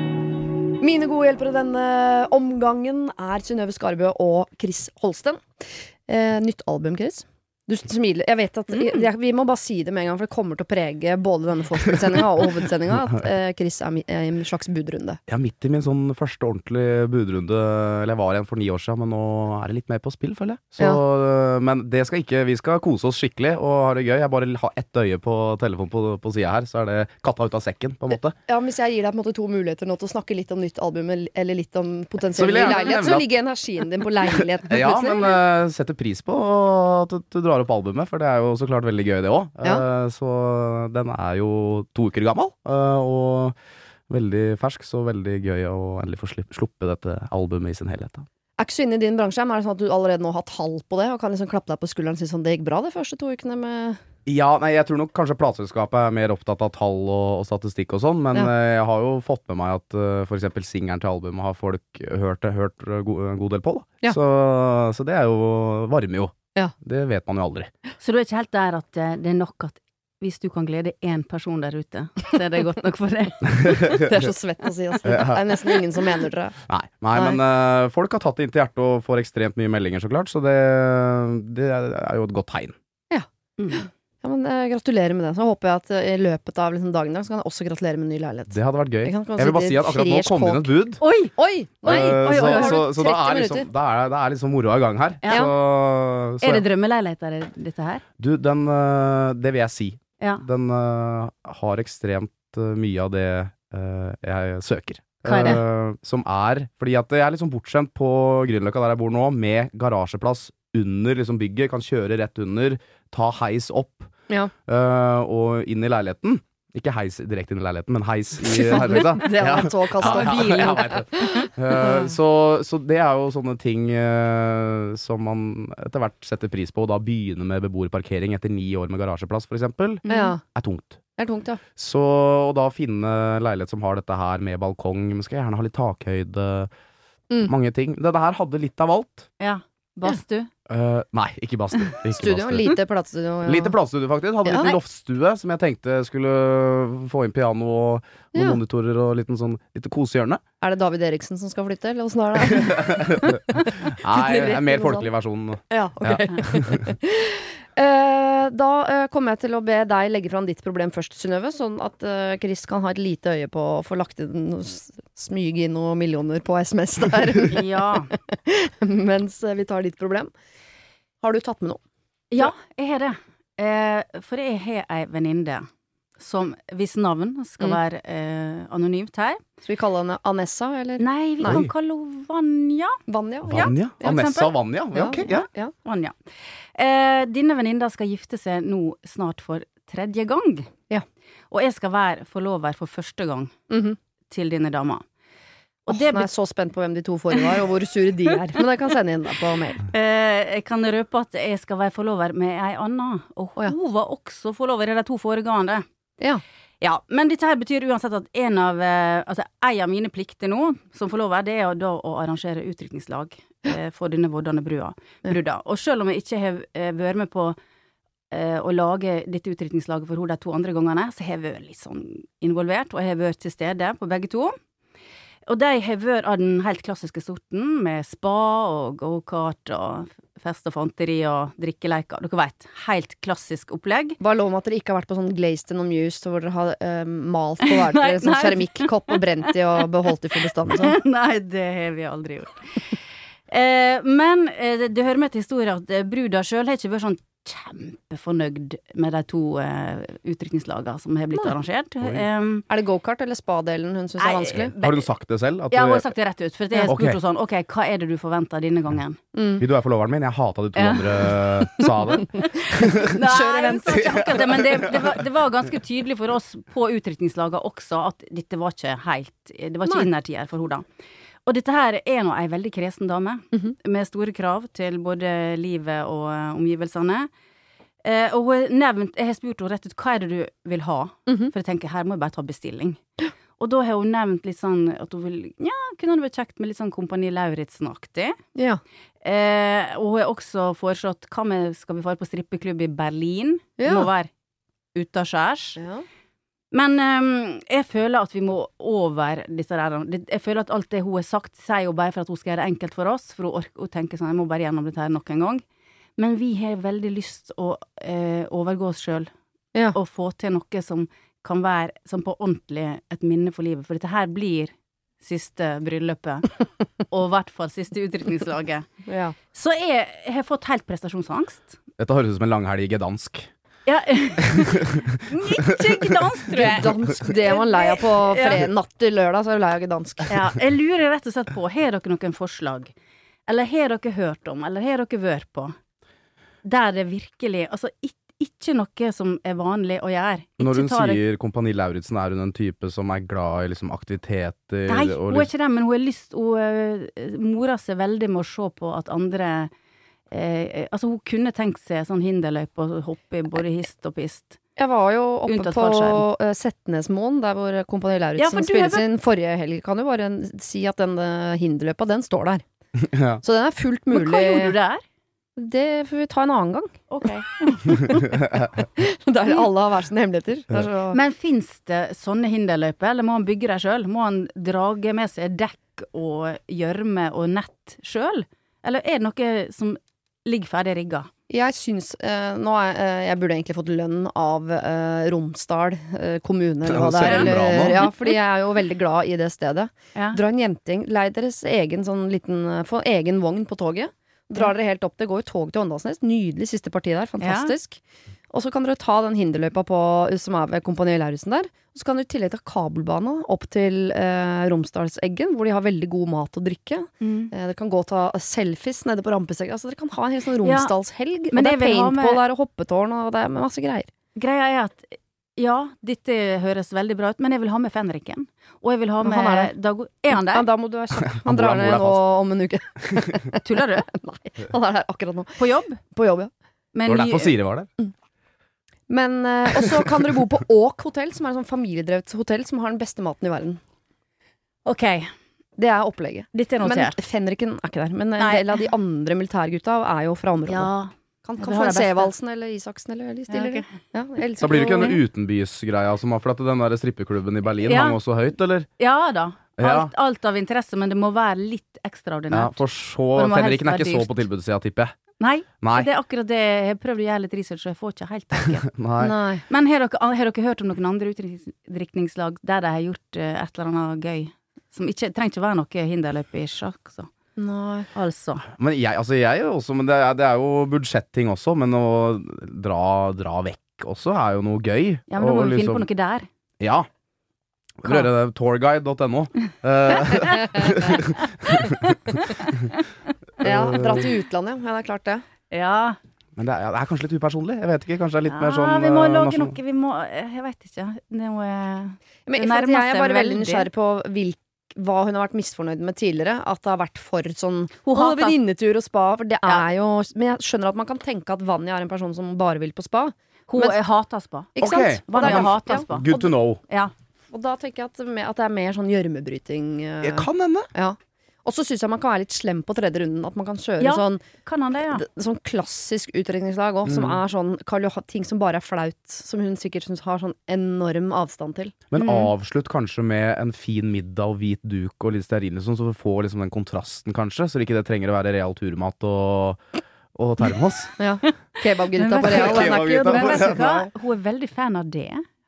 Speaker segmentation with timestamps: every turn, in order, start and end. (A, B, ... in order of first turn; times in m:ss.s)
0:00.8-0:05.4 A
0:06.1-0:15.2 A
0:08.7-0:09.0 B
0:15.3-0:28.4 C
0:28.5-0:35.4 A
0:32.3-0:33.3 C
0:34.3-0:43.5 C
0:44.1-0:48.2 C
0:48.6-0:54.0 A
0:54.2-1:07.7 C
1:08.0-1:13.9 B
1:13.5-1:14.1 C
1:13.9-1:16.6 A
1:15.0-1:15.4 C
1:16.7-1:22.7 C
1:17.1-1:17.4 A
1:23.1-1:30.7 A
1:23.6-1:23.8 B
1:28.5-1:31.0 C
1:31.0-1:31.4 B
1:31.4-1:33.7 A
1:31.8-1:36.6 C
1:31.9-1:32.7 B
1:36.4-1:38.0 B
1:38.2-1:54.1 C
1:40.2-1:40.4 B
1:45.2-1:45.6 B
1:54.6-2:11.0 C
1:58.4-2:02.1 A
2:00.0-2:00.7 B
2:10.0-2:10.3 B
2:10.1-2:10.4 A
2:11.2-2:11.6 A
2:11.8-2:16.7 C
2:17.4-2:19.3 C
2:19.4-2:20.5 B
2:20.7-2:22.8 C
2:22.1-2:23.8 A
2:23.4-2:30.4 C
2:24.4-2:24.7 A
2:28.3-2:28.6 A
2:30.6-2:35.1 A
2:32.5-2:36.9 C
2:35.7-2:50.3 A
2:47.5-2:48.1 B
2:51.2-2:51.8 A
2:52.3-2:55.6 B
2:56.2-2:59.4 B
2:59.6-3:01.6 A
3:01.0-3:03.0 B
3:01.4-3:01.7 C
3:03.1-3:04.1 A
3:03.4-3:05.4 C
3:03.5-3:04.6 B
3:04.9-3:05.7 A
3:05.1-3:06.2 B
3:06.7-3:10.7 B
3:11.5-3:13.5 B
3:13.7-3:14.0 A
3:14.3-3:15.0 B
3:15.9-3:16.3 B
3:15.9-3:19.8 A
3:17.3-3:17.6 B
3:19.8-3:25.8 B
3:26.8-3:37.6 B
3:38.3-3:44.5 B
3:45.5-3:54.2 B
3:54.2-4:01.0 A
3:57.6-4:03.0 B
4:03.5-4:12.7 B
4:12.7-4:14.7 A
4:14.2-4:15.1 B
4:14.8-4:16.1 C
4:15.7-4:19.2 B
4:16.9-4:17.2 C
4:19.3-4:19.6 A
4:19.6-4:23.1 C
4:20.7-4:30.8 B
4:22.7-4:24.0 A
4:23.9-4:25.2 C
4:29.8-4:30.1 A
4:31.4-4:37.3 B
4:38.0-4:43.0 B
4:41.2-4:41.5 A
4:43.6-4:48.4 B
4:48.5-4:48.8 A
4:49.2-4:54.3 B
4:53.8-4:54.1 A
4:54.9-4:55.8 B
4:55.8-4:56.0 A
4:56.7-5:05.6 B
5:06.2-5:09.3 B
5:09.9-5:16.6 B
5:17.1-5:18.8 B
5:19.0-5:19.4 A
5:19.5-5:21.8 B
5:22.0-5:23.5 C
5:23.8-5:28.6 B
5:24.5-5:25.0 C
5:25.7-5:26.3 C
5:26.5-5:30.4 A
5:30.3-5:32.9 B
5:33.4-5:35.8 B
5:36.6-5:41.2 B
5:40.6-5:45.5 C
5:44.9-5:49.7 B
5:50.3-5:54.6 B
5:54.8-6:02.6 A
5:55.5-5:56.3 B
5:58.4-5:59.1 B
6:03.0-6:03.4 C
6:03.4-6:04.8 A
6:04.1-6:05.0 B
6:05.6-6:06.9 A
6:07.1-6:08.0 B
6:07.9-6:08.6 C
6:08.8-6:11.2 A
6:11.1-6:21.3 B
6:21.5-6:38.0 A
6:26.8-6:28.1 C
6:27.2-6:28.3 B
6:30.1-6:30.4 B
6:37.4-6:37.7 B
6:38.5-6:54.1 A
6:47.2-6:47.5 B
6:50.6-6:50.9 B
6:51.5-6:52.5 B
6:54.3-7:00.7 B
6:59.2-6:59.7 A
7:00.3-7:06.5 A
7:01.1-7:02.2 C
7:03.6-7:04.1 B
7:05.6-7:06.0 B
7:06.9-7:07.6 B
7:07.0-7:07.9 C
7:09.1-7:13.8 A
7:14.8-7:15.3 B
7:15.8-7:20.9 A
7:16.5-7:17.2 B
7:18.4-7:18.9 B
7:20.7-7:22.3 B
7:21.4-7:25.2 A
7:23.5-7:23.8 B
7:24.6-7:28.9 C
7:27.8-7:28.2 B
7:29.0-7:34.4 B
7:29.8-7:30.1 C
7:32.5-7:35.1 C
7:35.4-7:38.9 B
7:35.8-7:36.1 C
7:38.9-7:39.4 C
7:39.2-7:39.6 A
7:39.7-7:47.3 B
7:47.6-7:48.1 A
7:48.1-7:48.7 B
7:48.8-7:56.0 C
7:55.3-7:56.4 B
7:56.8-7:57.0 C
7:58.0-8:02.5 C
8:01.7-8:02.7 B
8:03.6-8:05.4 A
8:03.6-8:04.3 C
8:05.7-8:06.2 B
8:06.6-8:09.8 C
8:08.5-8:13.9 B
8:12.4-8:24.0 A
8:18.0-8:18.6 B
8:23.7-8:27.1 B
8:24.7-8:26.5 A
8:24.8-8:26.8 C
8:27.5-8:34.5 A
8:30.2-8:30.9 C
8:34.0-8:35.2 B
8:35.1-8:42.0 A
8:37.0-8:37.4 C
8:42.1-8:49.8 C
8:42.2-8:42.5 B
8:50.3-8:51.1 C
8:51.2-8:54.0 A
8:51.4-8:55.4 B
8:52.4-8:54.1 C